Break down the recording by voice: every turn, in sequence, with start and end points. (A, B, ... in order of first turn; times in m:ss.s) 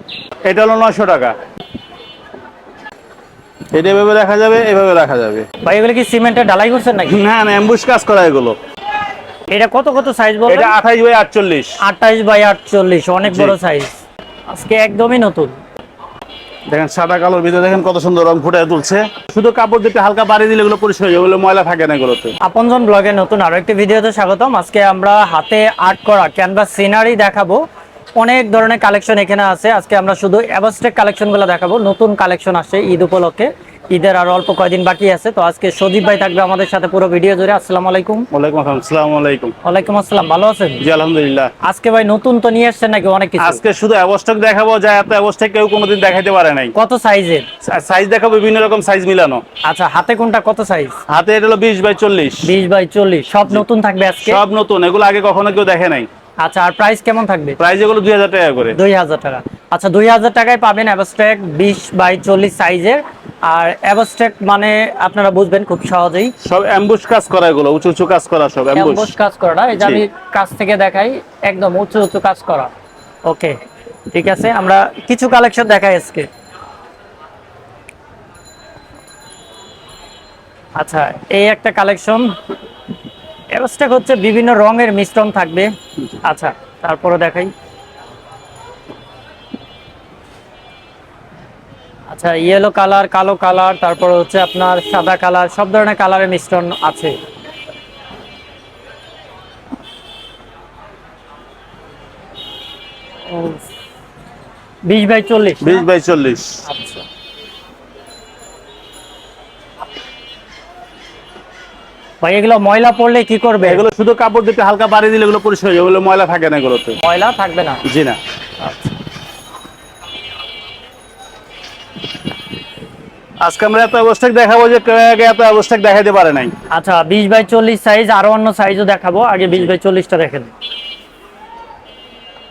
0:00.4-0:01.3 A
0:03.7-0:05.4 A
0:05.6-0:07.2 B
0:07.1-0:08.6 A
0:09.5-0:10.7 B
0:10.5-0:11.8 A
0:11.8-0:14.0 B
0:13.2-0:13.6 A
0:14.5-0:15.6 B
0:16.7-0:22.3 A
0:22.4-0:27.6 B
0:28.2-0:38.3 B
0:38.3-0:39.5 A
0:39.6-0:40.8 B
0:40.8-0:41.5 A
0:41.6-0:43.6 B
0:43.4-0:46.7 A
0:46.7-0:47.4 B
0:47.6-0:49.4 A
0:49.6-0:51.0 B
0:51.1-0:52.5 A
0:52.4-0:54.4 B
0:54.2-0:56.1 A
0:56.4-0:57.6 B
0:57.6-0:58.8 A
0:58.7-1:06.3 B
1:06.4-1:09.1 A
1:08.7-1:12.7 B
1:09.7-1:10.0 A
1:13.2-1:13.6 B
1:14.1-1:16.3 B
1:20.8-1:22.4 B
1:23.5-1:25.7 B
1:26.2-1:27.5 B
1:32.1-1:37.2 B
1:43.3-1:43.6 B
1:44.8-1:45.8 B
1:45.6-1:46.6 A
1:46.6-1:47.0 B
1:52.2-1:53.8 B
1:53.6-1:57.0 A
1:57.0-1:57.8 B
1:57.8-1:58.2 A
1:58.6-1:59.0 B
2:03.4-2:06.5 A
2:06.7-2:10.5 B